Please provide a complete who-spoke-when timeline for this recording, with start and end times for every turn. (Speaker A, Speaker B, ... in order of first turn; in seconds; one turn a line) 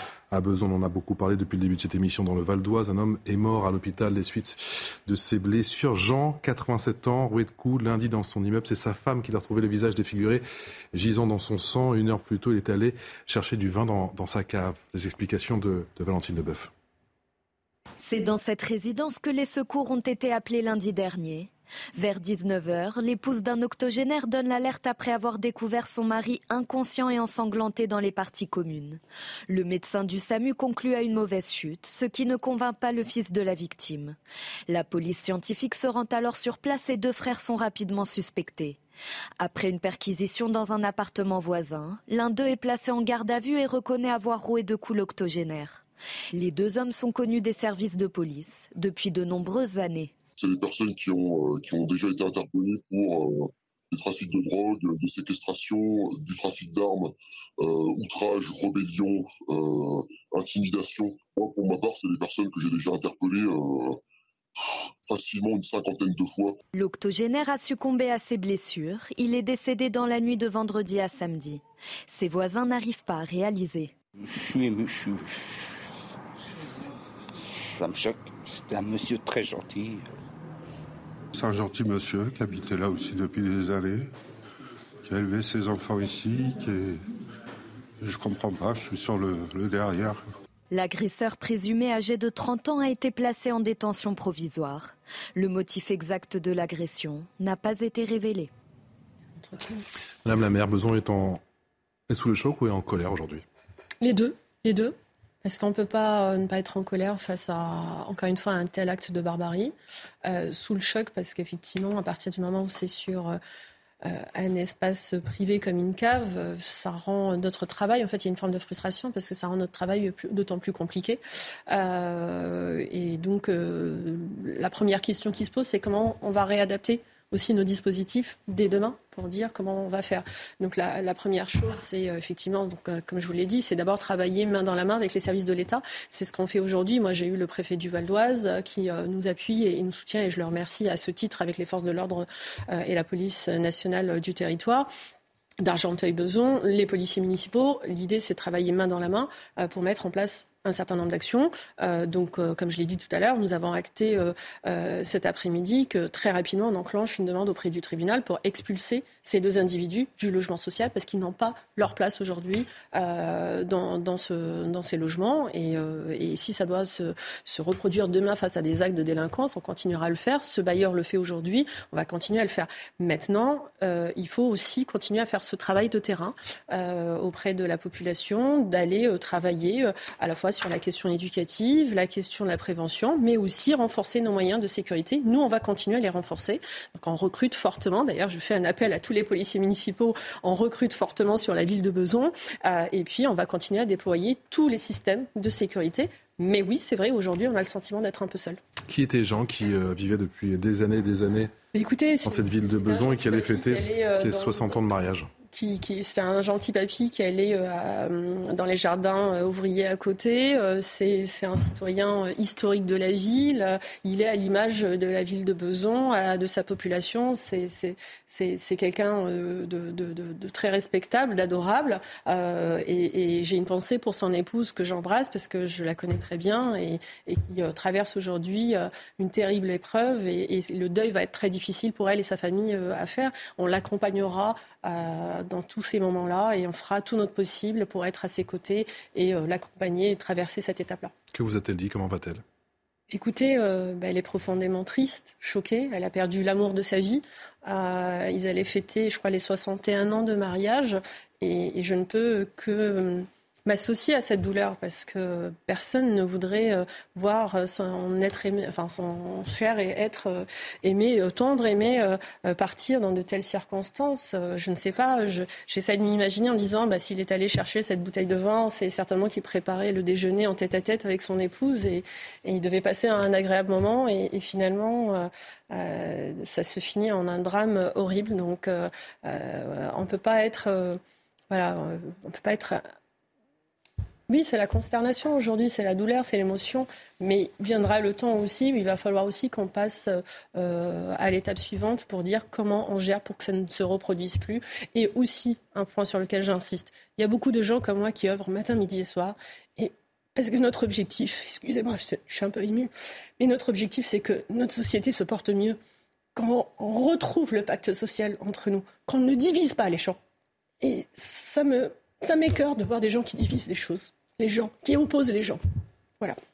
Speaker A: 0.3-16.7
Speaker B: 18.0-34.2
Speaker B: 34.7-38.8
Speaker B: 39.4-45.8
Speaker B: 46.3-50.1
Speaker C: 50.4-64.0
Speaker C: 65.0-66.6
Speaker B: 66.7-73.9
Speaker D: 74.2-76.1
Speaker D: 77.5-80.0
Speaker E: 81.3-84.1
Speaker E: 85.0-87.0
Speaker E: 88.0-90.2
Speaker B: 90.7-98.5
Speaker F: 99.4-99.8
Speaker A: 100.2-101.4
Speaker A: 102.1-103.4
Speaker F: 104.0-109.7
Speaker F: 110.2-113.4
Speaker F: 114.0-144.9
Speaker F: 145.6-198.6
Speaker A: 198.9-201.5
Speaker F: 201.7-204.8
Speaker A: 202.2-205.3
Speaker F: 205.5-241.1
Speaker A: 241.3-242.4
Speaker F: 243.1-281.0
Speaker F: 281.5-282.8
Speaker F: 284.3-305.8
Speaker F: 306.4-310.2
Speaker F: 310.8-315.6